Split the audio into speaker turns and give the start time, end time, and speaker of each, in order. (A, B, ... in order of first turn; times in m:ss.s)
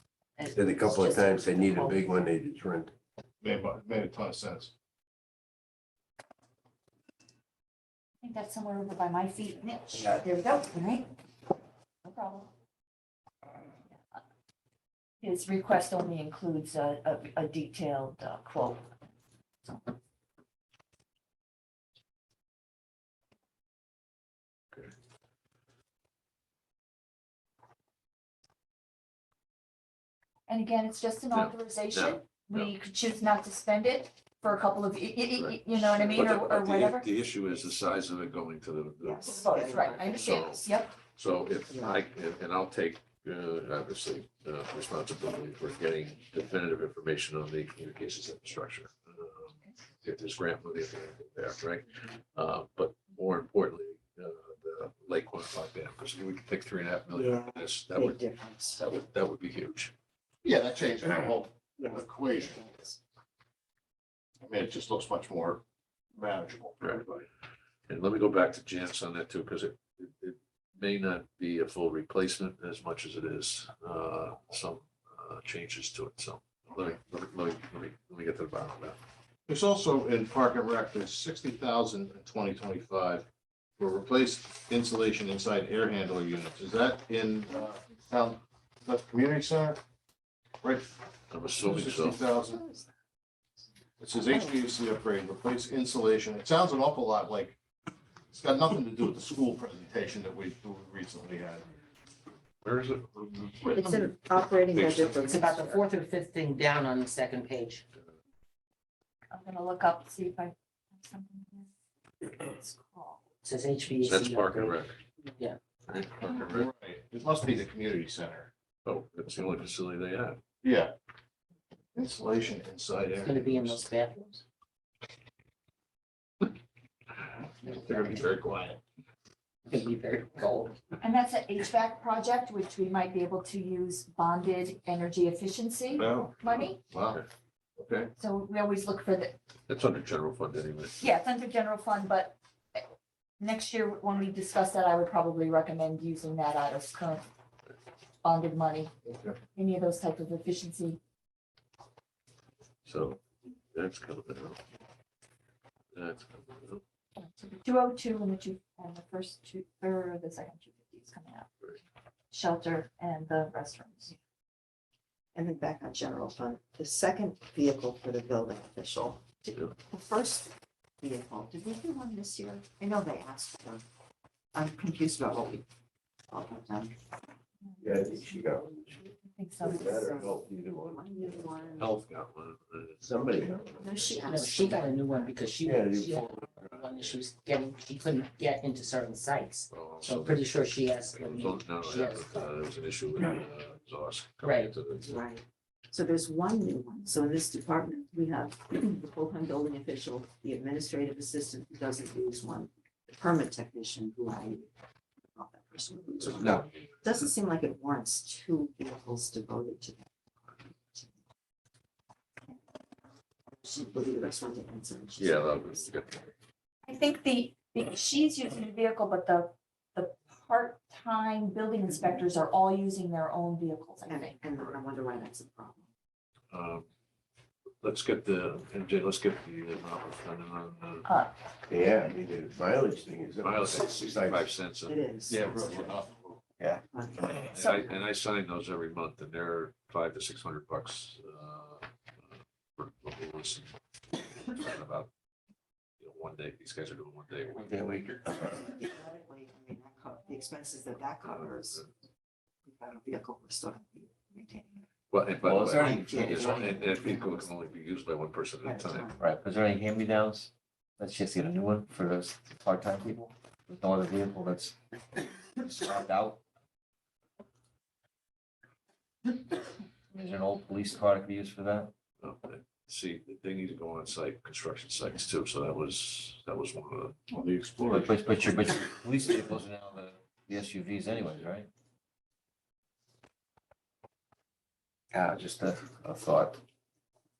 0:00.4-0:02.1 A
0:00.5-0:02.9 B
0:03.4-0:04.7 C
0:08.2-0:11.1 A
0:12.0-0:12.5 A
0:13.9-0:14.2 A
0:15.2-0:18.9 A
0:19.6-0:19.9 A
0:30.5-0:37.1 A
0:31.3-0:32.7 D
0:35.4-0:59.9 D
0:39.0-0:40.2 E
0:39.3-0:40.9 A
0:41.7-0:42.0 E
0:57.2-0:58.8 E
1:00.4-1:02.7 C
1:01.8-1:03.0 E
1:04.4-1:05.6 C
1:06.1-1:07.3 C
1:07.9-1:19.0 D
1:19.5-1:23.3 C
1:23.8-1:29.8 C
1:30.6-1:30.9 C
1:31.3-1:32.2 D
1:31.6-1:32.7 C
1:32.4-1:32.8 E
1:34.0-1:37.6 C
1:38.3-1:41.7 C
1:42.6-1:43.7 D
1:43.6-1:45.8 E
1:44.7-1:45.8 D
1:45.2-1:47.8 F
1:49.3-1:51.7 A
1:52.2-1:53.2 A
1:53.4-1:54.8 F
1:54.0-1:55.0 D
1:55.9-1:56.7 D
1:56.4-1:58.5 C
1:58.8-2:00.4 D
2:00.6-2:00.9 C
2:02.0-2:03.9 C
2:03.2-2:04.4 F
2:07.6-2:08.3 F
2:07.7-2:08.8 C
2:09.7-2:10.8 F
2:11.0-2:16.8 A
2:16.0-2:17.2 C
2:16.0-2:16.3 D
2:17.8-2:18.1 C
2:18.2-2:19.4 A
2:19.7-2:20.9 D
2:21.0-2:22.8 A
2:23.4-2:27.3 A
2:28.2-2:28.9 A
2:29.1-2:29.4 C
2:29.6-2:31.0 A
2:32.9-2:33.2 D
2:33.7-2:34.6 D
2:35.9-2:36.8 D
2:37.2-2:41.5 A
2:42.3-2:44.2 A
2:45.3-2:53.8 E
2:54.6-2:55.7 E
2:56.3-2:56.9 E
2:57.8-2:58.8 B
2:59.4-3:00.0 A
2:59.6-3:01.6 B
2:59.7-3:01.9 E
3:01.8-3:03.0 D
3:03.0-3:04.3 B
3:03.6-3:05.3 E
3:04.2-3:12.5 F
3:05.6-3:06.6 B
3:06.6-3:07.0 D
3:09.7-3:10.5 D
3:11.2-3:15.2 D
3:14.4-3:14.8 F
3:15.0-3:24.7 E
3:25.3-3:31.1 E
3:26.2-3:26.6 D
3:33.5-3:35.8 E
3:35.2-3:36.3 D
3:36.8-3:44.4 A
3:44.1-3:45.8 E
3:46.5-3:46.9 D
3:47.8-3:51.0 D
3:51.0-3:51.3 A
3:51.7-3:54.5 B
3:53.4-3:55.0 D
3:54.9-3:56.1 E
3:55.3-3:56.3 C
3:56.6-3:57.5 G
3:56.9-3:57.7 E
3:57.5-4:03.7 D
3:57.6-3:57.8 A
4:04.4-4:05.1 D
4:06.0-4:07.7 D
4:07.5-4:08.6 G
4:08.6-4:11.8 E
4:11.2-4:11.9 D
4:12.7-4:14.8 E
4:15.1-4:19.1 D
4:15.4-4:16.9 G
4:15.6-4:17.5 E
4:18.6-4:19.2 E
4:19.2-4:24.8 G
4:25.6-4:26.4 G
4:30.1-4:31.9 G
4:32.2-4:37.2 D
4:37.3-4:38.2 C
4:37.9-4:41.7 G
4:45.1-4:46.6 G